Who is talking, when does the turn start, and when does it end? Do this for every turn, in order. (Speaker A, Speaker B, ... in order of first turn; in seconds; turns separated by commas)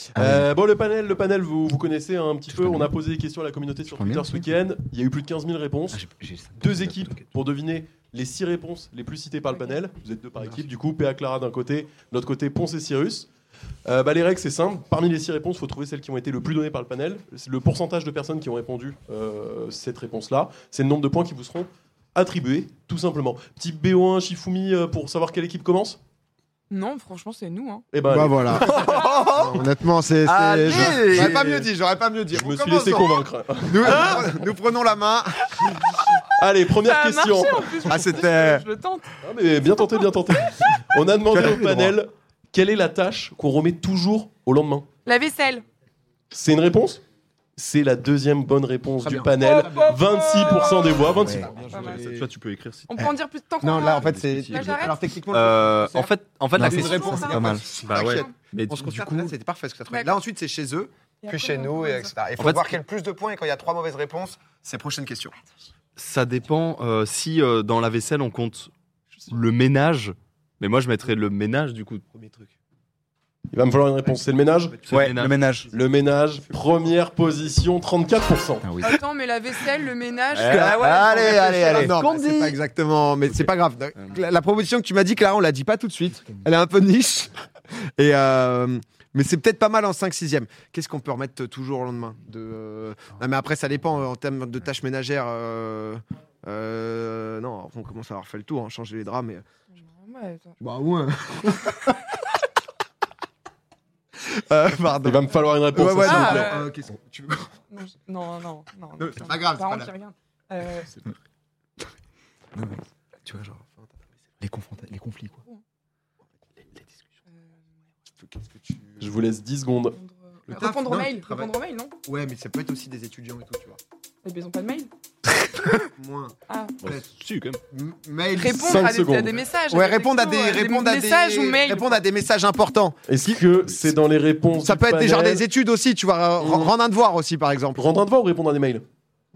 Speaker A: 0.1-6.0, Speaker B: 0.2-0.5, Speaker B: 2.5-2.9, Speaker B: 3.9-4.5, Speaker B: 5.9-7.2, Speaker A: 6.6-13.3, Speaker C: 9.5-9.8, Speaker A: 13.8-26.0, Speaker C: 26.7-27.9, Speaker A: 27.9-29.0, Speaker D: 28.1-35.9, Speaker E: 28.6-29.5, Speaker B: 28.9-29.5, Speaker E: 30.2-31.7, Speaker A: 30.7-31.4, Speaker A: 32.3-34.5, Speaker A: 36.2-37.8, Speaker C: 36.8-39.1, Speaker D: 37.8-38.7, Speaker A: 39.2-44.9, Speaker D: 41.5-41.9, Speaker C: 45.0-45.6, Speaker A: 46.3-47.0, Speaker A: 47.6-51.5, Speaker D: 49.0-52.3, Speaker C: 49.4-51.0, Speaker B: 51.1-51.5, Speaker E: 51.5-53.0, Speaker C: 51.7-52.0, Speaker C: 52.9-55.0, Speaker D: 53.6-65.3, Speaker E: 53.8-59.4, Speaker B: 56.6-57.6, Speaker C: 56.6-58.3, Speaker C: 61.2-62.1, Speaker E: 62.4-62.8, Speaker E: 66.0-68.7, Speaker E: 69.3-72.0, Speaker D: 72.1-72.5, Speaker A: 73.5-74.9, Speaker E: 74.9-75.4, Speaker B: 74.9-75.7, Speaker A: 75.7-78.7, Speaker B: 78.6-79.0, Speaker C: 78.8-81.1, Speaker B: 80.3-82.0, Speaker E: 80.3-82.6, Speaker D: 80.4-87.4, Speaker D: 88.0-99.4, Speaker C: 99.8-100.6, Speaker D: 100.6-102.0, Speaker D: 104.2-107.5, Speaker A: 105.0-106.6, Speaker C: 106.0-106.7, Speaker C: 107.7-110.9, Speaker D: 109.0-109.9, Speaker B: 112.5-113.6, Speaker D: 113.6-113.9, Speaker B: 114.4-115.4, Speaker D: 118.2-119.0, Speaker A: 119.0-120.0, Speaker C: 119.9-122.0, Speaker D: 120.5-121.5, Speaker D: 122.0-123.8, Speaker C: 124.2-124.9, Speaker D: 125.7-127.1, Speaker C: 126.5-126.8, Speaker E: 126.8-127.6, Speaker D: 127.7-128.9, Speaker C: 128.4-132.0, Speaker A: 128.5-129.4, Speaker D: 129.7-133.9, Speaker A: 133.1-135.5, Speaker D: 134.6-137.8, Speaker A: 136.4-136.7, Speaker A: 137.8-138.8